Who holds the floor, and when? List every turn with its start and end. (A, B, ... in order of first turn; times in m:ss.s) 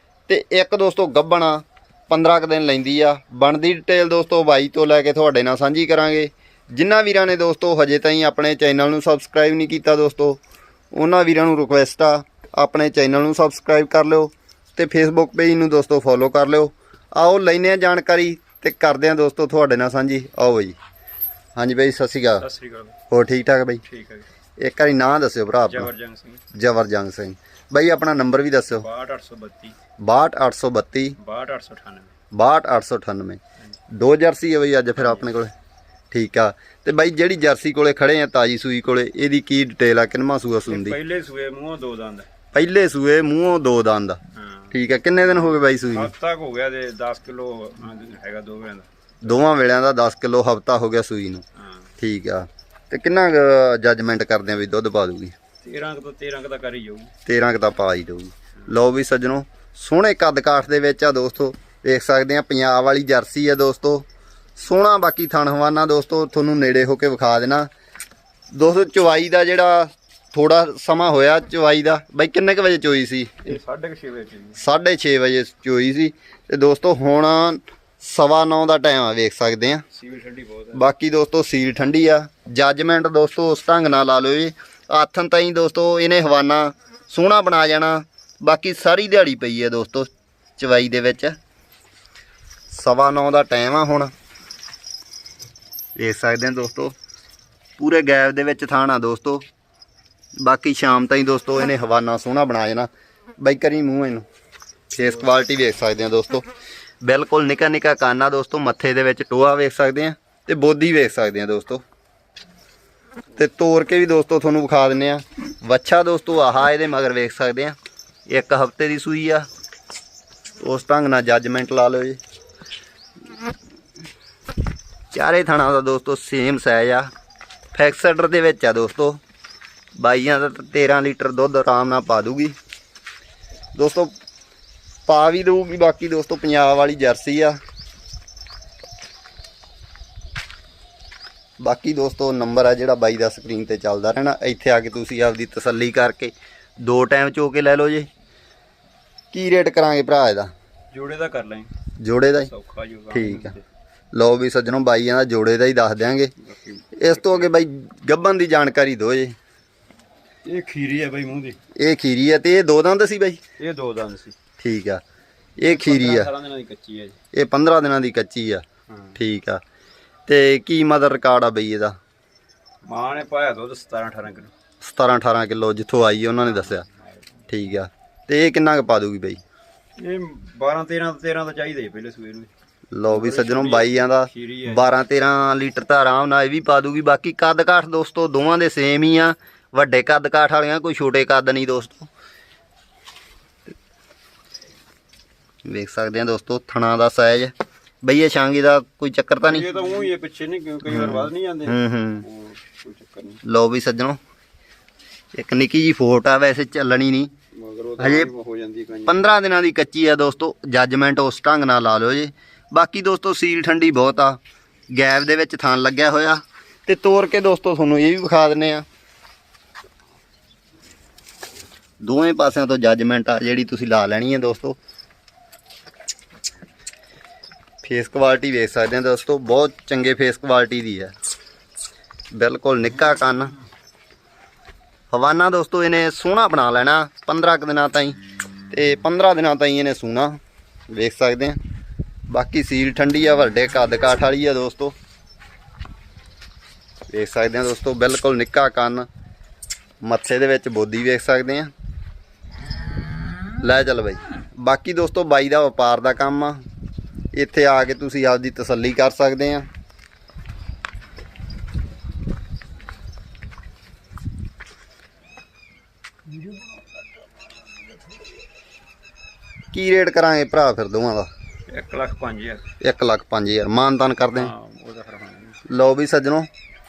0:00.3-0:10.4 A
0:10.9-0:20.8 A
0:21.6-0:22.4 A
0:22.4-0:23.0 B
0:23.1-0:23.8 A
0:23.8-0:24.3 B
0:24.6-0:25.9 A
0:25.7-0:26.4 B
0:26.6-0:28.9 A
0:28.7-0:29.8 B
0:30.0-0:31.2 A
0:31.2-0:32.2 B
0:32.3-0:33.4 A
0:33.9-0:35.5 A
0:35.0-0:35.2 B
0:36.1-0:41.0 A
0:40.7-0:42.3 B
0:42.5-0:44.2 A
0:44.4-0:44.7 B
0:44.7-0:46.1 A
0:45.2-0:48.9 B
0:49.2-0:51.4 A
0:52.0-0:55.4 A
0:55.6-0:57.1 B
0:57.3-1:04.0 A
1:04.6-1:07.7 A
1:08.5-1:13.6 A
1:13.4-1:14.6 B
1:14.6-1:19.8 A
1:19.9-1:20.9 B
1:20.7-1:31.4 A
1:32.7-1:34.1 A
1:36.0-1:36.9 A
1:37.8-1:39.4 A
1:40.4-1:44.2 A
1:44.9-1:46.5 A
1:47.0-1:51.8 A
1:53.4-1:57.8 A
1:58.3-1:59.5 A
2:00.6-2:02.2 A
2:05.1-2:07.1 A
2:07.7-2:09.2 A
2:10.0-2:12.6 A
2:13.8-2:14.1 A
2:15.1-2:17.6 A
2:21.6-2:28.1 A
2:29.3-2:30.5 A
2:30.9-2:31.7 B
2:32.0-2:32.5 A
2:32.4-2:33.7 B
2:33.1-2:33.6 A
2:34.1-2:36.3 A
2:36.4-2:37.5 B
2:37.0-2:39.4 A
2:40.5-2:41.6 B
2:41.8-2:43.4 A
2:43.6-2:44.4 B
2:44.6-2:45.0 A
2:45.6-2:46.3 A
2:45.6-2:47.2 B
2:47.3-2:48.6 A
2:48.9-2:49.2 B
2:49.2-2:49.6 A
2:50.3-2:52.0 A
2:52.9-2:54.5 B
2:54.8-2:56.8 A
2:56.4-2:57.4 B
2:57.5-2:59.4 A
3:00.0-3:02.5 B
3:02.9-3:12.1 A
3:03.1-3:04.9 B
3:15.6-3:19.7 A
3:19.4-3:23.4 B
3:20.9-3:22.2 A
3:23.4-3:24.2 A
3:25.3-3:27.3 A
3:27.6-3:29.2 B
3:28.0-3:28.3 A
3:29.1-3:34.4 A
3:34.9-3:38.8 A
3:42.0-3:44.8 A
3:47.8-3:51.1 A
3:52.3-3:53.5 A
3:55.1-3:58.2 A
3:58.7-4:00.4 A
4:00.9-4:01.6 A
4:02.3-4:05.0 A
4:07.1-4:09.1 A
4:10.0-4:11.7 A
4:13.6-4:16.6 A
4:17.3-4:19.7 A
4:26.3-4:26.6 B
4:29.7-4:31.3 A
4:31.7-4:32.7 B
4:32.8-4:34.5 A
4:34.3-4:35.6 B
4:35.7-4:36.5 A